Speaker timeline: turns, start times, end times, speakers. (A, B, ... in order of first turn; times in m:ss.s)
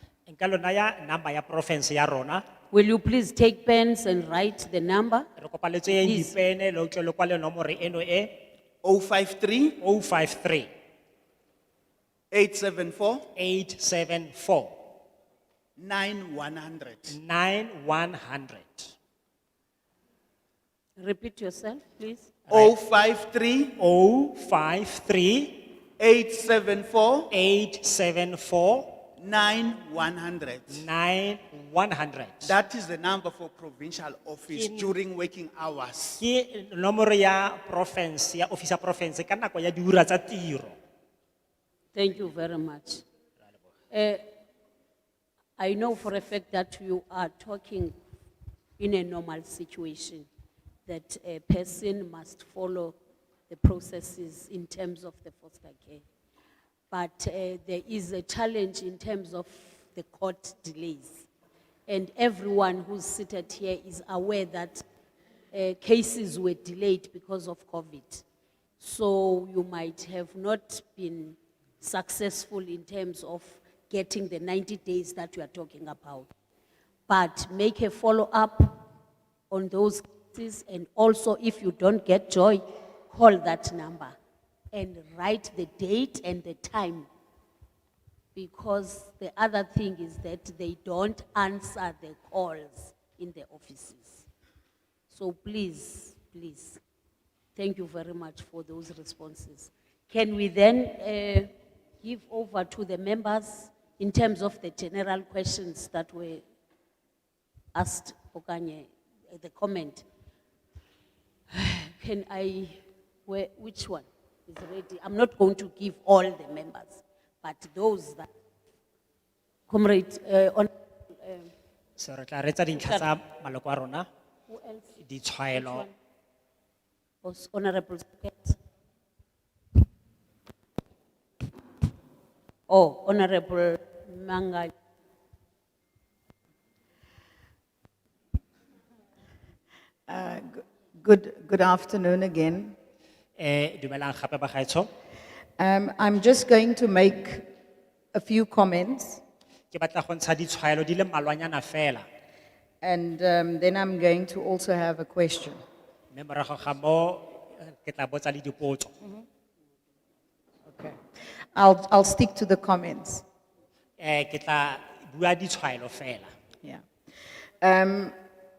0:00.3-0:02.4 A
0:02.7-0:05.3 B
0:05.4-0:08.4 A
0:05.9-0:06.4 B
0:08.8-0:09.8 C
0:09.8-0:10.7 A
0:12.3-0:13.3 C
0:13.4-0:14.8 A
0:15.8-0:17.2 C
0:17.1-0:19.0 A
0:21.0-0:22.4 B
0:22.5-0:22.8 A
0:22.5-0:23.8 C
0:23.8-0:25.6 A
0:26.0-0:27.4 C
0:27.3-0:29.0 A
0:29.2-0:30.9 C
0:30.7-0:32.5 A
0:32.4-0:36.2 C
0:34.5-0:34.9 A
0:36.2-0:40.8 A
0:41.9-0:43.0 B
0:43.9-0:44.3 B
0:45.6-0:48.0 B
0:48.8-0:50.3 B
0:50.9-0:53.0 B
0:53.5-0:56.0 B
0:56.9-1:01.3 B
1:01.9-1:04.8 B
1:05.5-1:08.2 B
1:08.8-1:16.3 B
1:17.1-1:18.9 B
1:19.5-1:24.2 B
1:24.7-1:27.1 B
1:28.4-1:34.3 B
1:35.1-1:36.8 B
1:37.6-1:46.4 B
1:47.7-1:50.1 B
1:51.5-1:58.3 B
1:59.7-2:01.5 B
2:02.0-2:04.1 A
2:02.7-2:03.1 B
2:04.5-2:05.0 B
2:05.0-2:05.9 A
2:05.5-2:06.0 B
2:07.2-2:08.6 B
2:12.7-2:14.7 B
2:20.1-2:22.8 D
2:23.4-2:24.9 A
2:25.6-2:27.5 D
2:28.1-2:29.2 D
2:29.7-2:32.1 A
2:32.8-2:35.6 D
2:36.1-2:38.9 A
2:40.7-2:41.0 D
2:41.6-2:43.2 D
2:44.0-2:46.3 A
2:47.6-2:48.2 D